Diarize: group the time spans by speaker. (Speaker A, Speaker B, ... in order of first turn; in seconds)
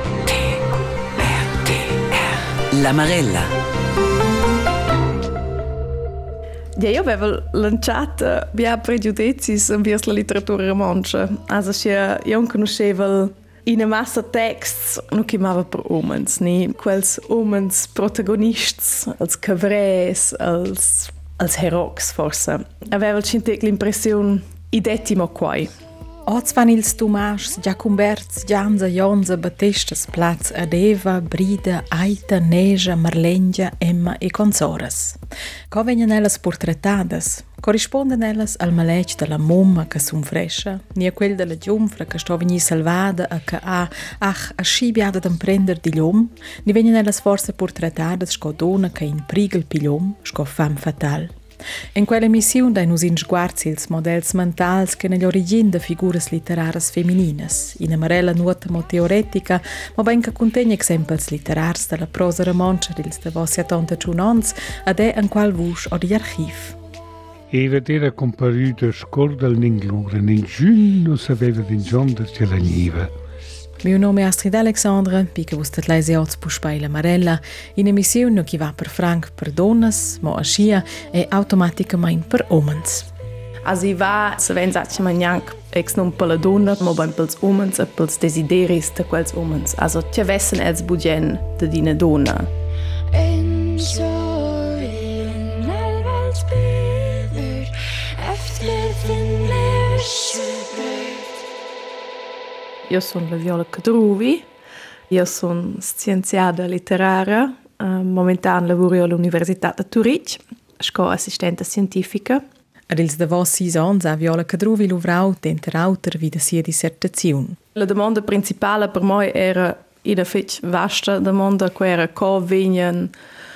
Speaker A: 0.2-0.6, 1.2-3.5
Speaker B: 6.8-25.7, 83.6-92.5, 102.9-104.5, 105.1-112.4, 117.7-123.1
Speaker C: 26.2-35.2, 35.7-51.3, 51.9-66.8, 73.8-83.1, 112.9-117.6
Speaker D: 67.5-73.1
Speaker E: 93.1-101.2